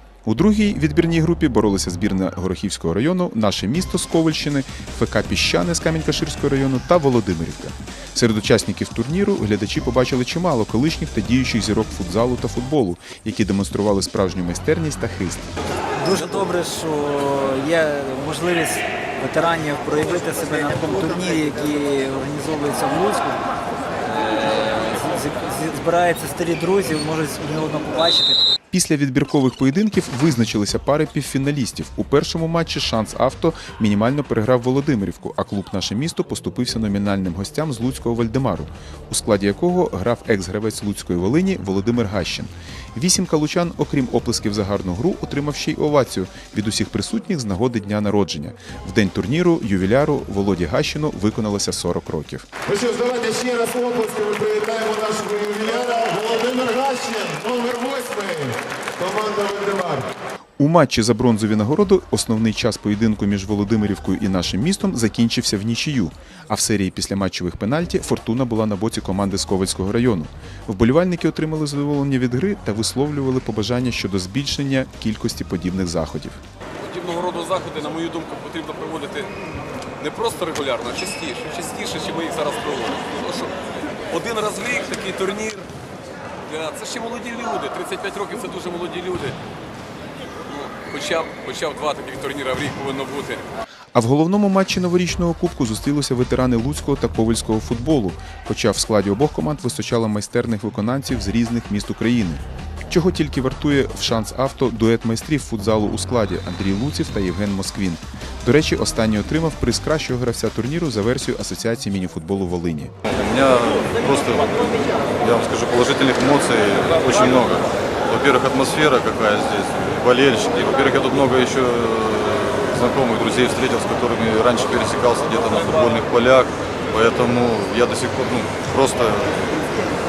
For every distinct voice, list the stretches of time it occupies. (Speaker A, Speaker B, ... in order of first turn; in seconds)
Speaker A: 0.2-15.5, 28.7-52.5, 60.6-76.4, 94.0-112.9
Speaker B: 16.0-23.4, 24.0-28.4
Speaker C: 52.7-60.1
Speaker D: 76.8-79.3, 80.0-85.7, 86.5-89.3, 90.5-93.4
Speaker E: 113.1-114.6, 115.2-129.4